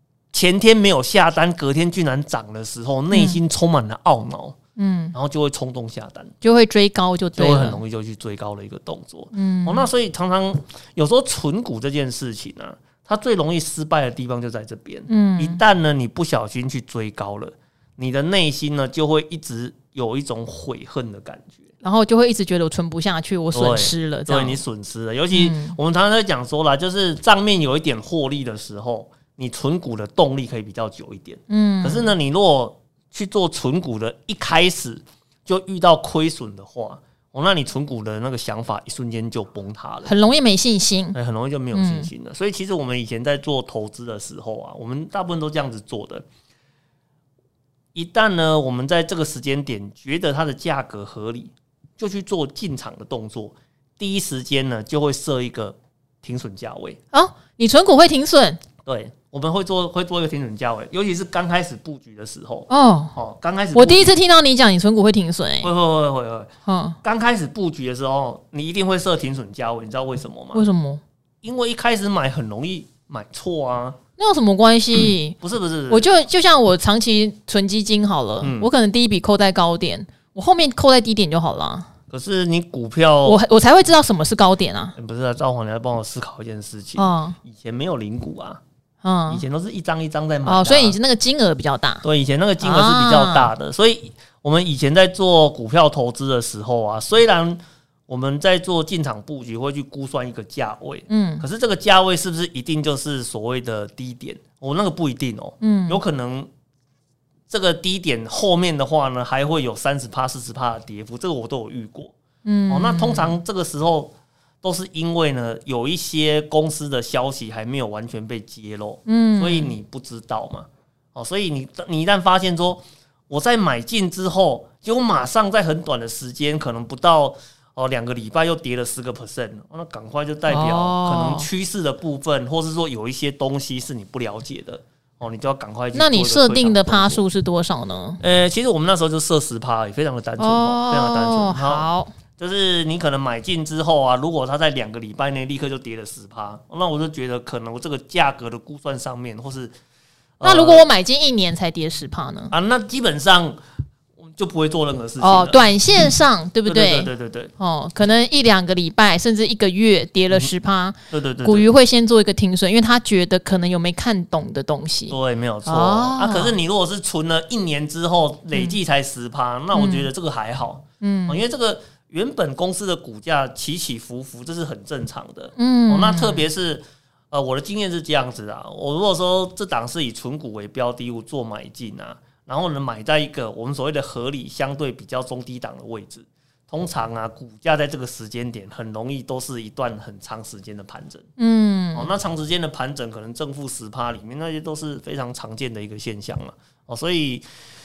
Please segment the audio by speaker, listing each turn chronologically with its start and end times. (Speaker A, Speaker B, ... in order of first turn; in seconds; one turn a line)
Speaker A: 0.3-4.5
Speaker B: 3.1-3.4
Speaker B: 4.8-5.1
Speaker A: 5.1-6.3
Speaker B: 6.4-7.8
Speaker A: 7.4-21.5
Speaker B: 9.3-9.9
Speaker B: 15.1-15.6
Speaker B: 21.8-24.6
Speaker A: 23.5-40.1
Speaker B: 25.3-25.8
Speaker B: 31.5-32.1
Speaker B: 40.0-41.2
Speaker A: 41.1-46.2
Speaker B: 41.7-42.1
Speaker A: 47.9-57.0
Speaker B: 57.1-58.6
Speaker A: 58.8-64.1
Speaker B: 62.7-63.1
Speaker B: 63.7-65.7
Speaker A: 65.6-66.5
Speaker B: 66.7-67.0
Speaker A: 67.0-70.6
Speaker B: 70.5-71.0
Speaker A: 71.4-74.0
Speaker B: 74.2-75.3
Speaker A: 75.0-76.1
Speaker B: 75.9-81.9
Speaker A: 78.4-78.7
Speaker A: 82.1-83.4
Speaker B: 83.2-85.0
Speaker A: 85.0-88.6
Speaker B: 87.0-87.4
Speaker B: 89.0-89.4
Speaker A: 89.3-91.0
Speaker B: 90.4-92.0
Speaker A: 92.0-106.5
Speaker B: 92.6-93.5
Speaker B: 101.1-101.4
Speaker B: 105.6-106.0
Speaker A: 107.5-112.1
Speaker B: 112.4-113.3
Speaker A: 112.7-137.2
Speaker B: 119.0-119.7
Speaker B: 130.5-131.5
Speaker B: 135.9-138.2
Speaker A: 138.2-141.8
Speaker B: 140.4-142.1
Speaker A: 142.4-149.7
Speaker A: 150.4-150.8
Speaker B: 150.4-152.5
Speaker A: 152.5-153.6
Speaker A: 154.2-155.6
Speaker B: 155.2-166.5
Speaker A: 156.7-157.5
Speaker A: 161.1-161.7
Speaker A: 165.1-191.3
Speaker B: 169.7-170.1
Speaker B: 171.0-171.4
Speaker B: 175.6-176.4
Speaker B: 191.4-192.1
Speaker A: 191.9-197.4